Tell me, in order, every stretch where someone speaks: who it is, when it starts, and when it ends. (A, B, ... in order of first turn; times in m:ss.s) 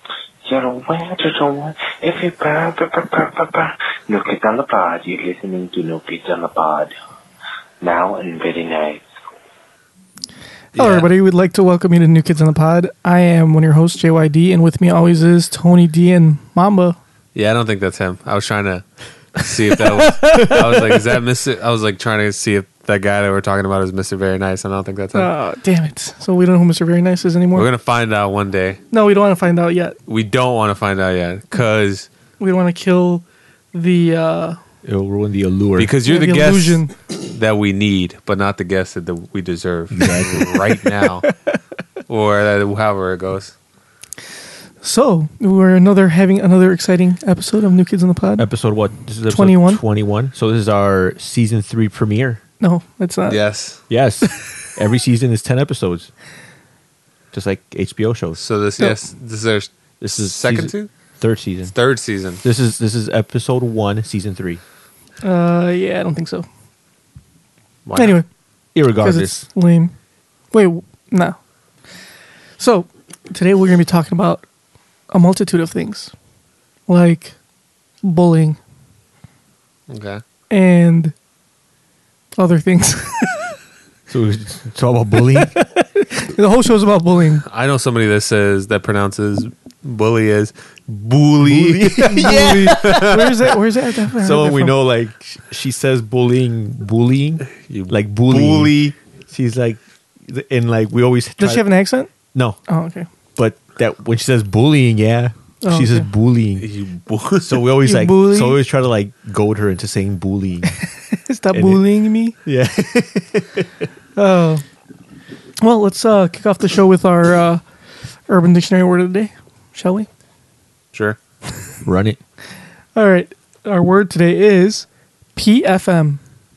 0:00.5-0:06.9 A
0:07.8-0:09.1 A
0:10.7-0:11.1 B
0:10.8-0:17.0 C
0:17.4-0:18.8 B
0:19.4-0:25.3 B
0:20.0-0:20.8 C
0:25.1-0:27.7 C
0:27.6-0:28.8 B
0:28.9-0:30.0 C
0:30.1-0:32.1 B
0:32.4-0:34.6 C
0:34.8-0:35.9 D
0:35.8-0:41.3 B
0:36.1-0:36.9 C
0:39.9-0:40.5 D
0:42.1-0:43.5 B
0:44.8-0:48.5 C
0:48.4-0:52.4 D
0:49.3-0:49.8 C
0:52.6-0:53.4 C
0:53.3-0:53.8 B
0:53.9-0:56.1 D
0:57.3-0:58.4 D
0:58.4-0:59.7 B
1:00.0-1:01.7 D
1:00.2-1:00.9 B
1:01.7-1:02.4 B
1:02.4-1:04.6 D
1:05.2-1:06.5 C
1:07.9-1:08.2 B
1:08.0-1:08.2 C
1:08.8-1:09.4 D
1:09.0-1:09.9 C
1:10.5-1:11.4 C
1:12.6-1:14.4 C
1:15.1-1:16.1 C
1:16.9-1:17.4 C
1:18.0-1:18.6 C
1:19.9-1:20.2 B
1:20.5-1:21.1 C
1:22.4-1:23.4 C
1:24.1-1:25.6 D
1:25.8-1:27.4 C
1:27.4-1:33.5 B
1:31.4-1:33.4 D
1:32.1-1:34.8 C
1:34.2-1:41.7 D
1:37.6-1:38.7 B
1:41.4-1:42.1 C
1:42.3-1:42.6 D
1:42.7-1:43.1 C
1:43.4-1:46.7 D
1:45.6-1:46.1 C
1:46.6-1:47.6 B
1:47.4-1:50.8 D
1:47.8-1:48.6 C
1:51.1-1:52.4 C
1:51.5-1:51.8 D
1:52.4-1:53.7 D
1:54.2-1:54.6 C
1:55.6-1:57.6 C
1:58.3-2:00.1 C
2:01.8-2:02.2 D
2:03.0-2:06.2 C